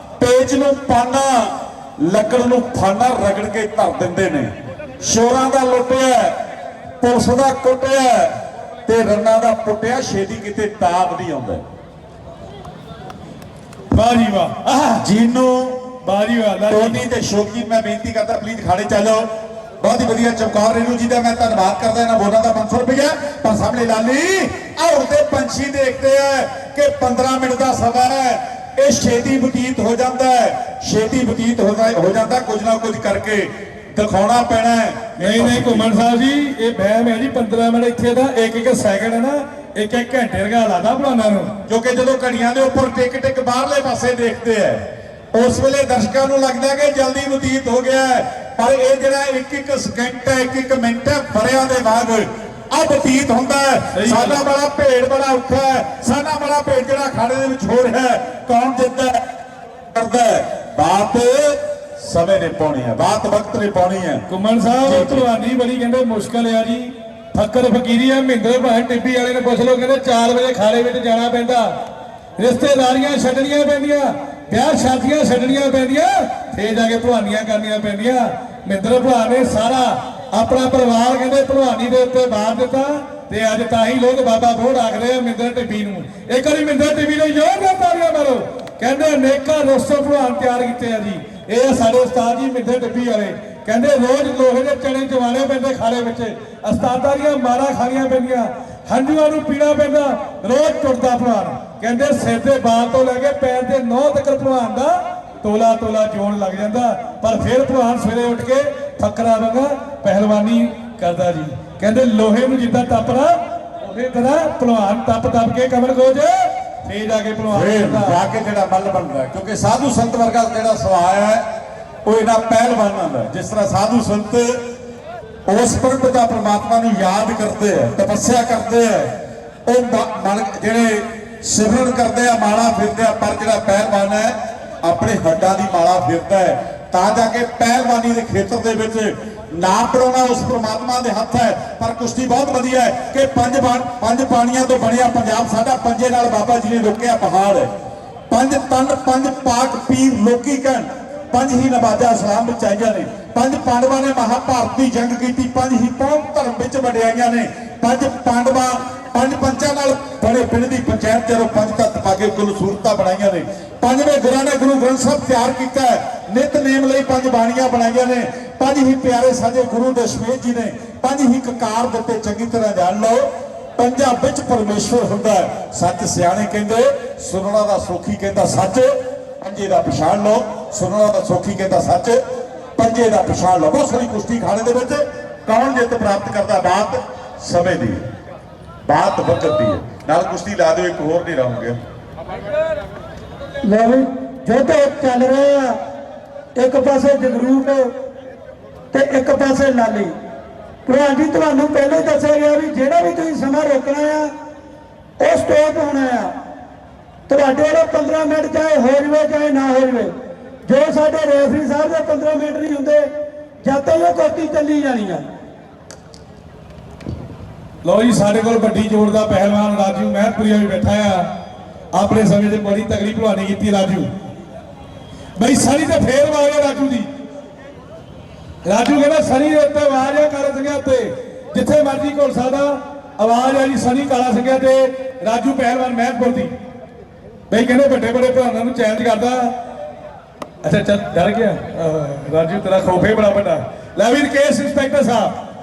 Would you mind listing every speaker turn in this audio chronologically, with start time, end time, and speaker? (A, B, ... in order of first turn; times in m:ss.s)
0:00.2-0:06.4 A
0:07.0-0:08.3 A
0:08.9-0:11.6 A
0:13.9-0:15.1 B
0:15.0-0:15.8 A
0:16.0-0:17.0 B
0:16.7-0:19.3 A
0:19.8-0:35.9 A
0:35.2-0:41.5 B
0:41.7-0:59.2 A
0:53.9-0:54.4 B
0:59.9-1:04.2 A
1:04.3-1:11.8 B
1:04.8-1:05.3 A
1:12.4-1:58.2 B
1:57.5-2:01.4 A
2:02.0-2:04.6 A
2:05.5-2:09.1 A
2:09.7-2:27.7 A
2:28.3-3:02.2 A
3:02.8-3:08.0 A
3:08.9-3:11.8 A
3:13.6-3:15.8 C
3:16.6-3:17.9 C
3:18.9-3:20.1 C
3:20.9-3:24.3 C
3:25.2-3:26.3 C
3:27.3-3:30.1 C
3:30.7-3:33.1 C
3:33.6-3:35.3 C
3:37.8-3:41.3 B
3:41.9-3:44.1 B
3:45.4-3:47.1 B
3:48.6-3:56.5 B
3:57.5-3:59.5 B
4:00.6-4:05.3 B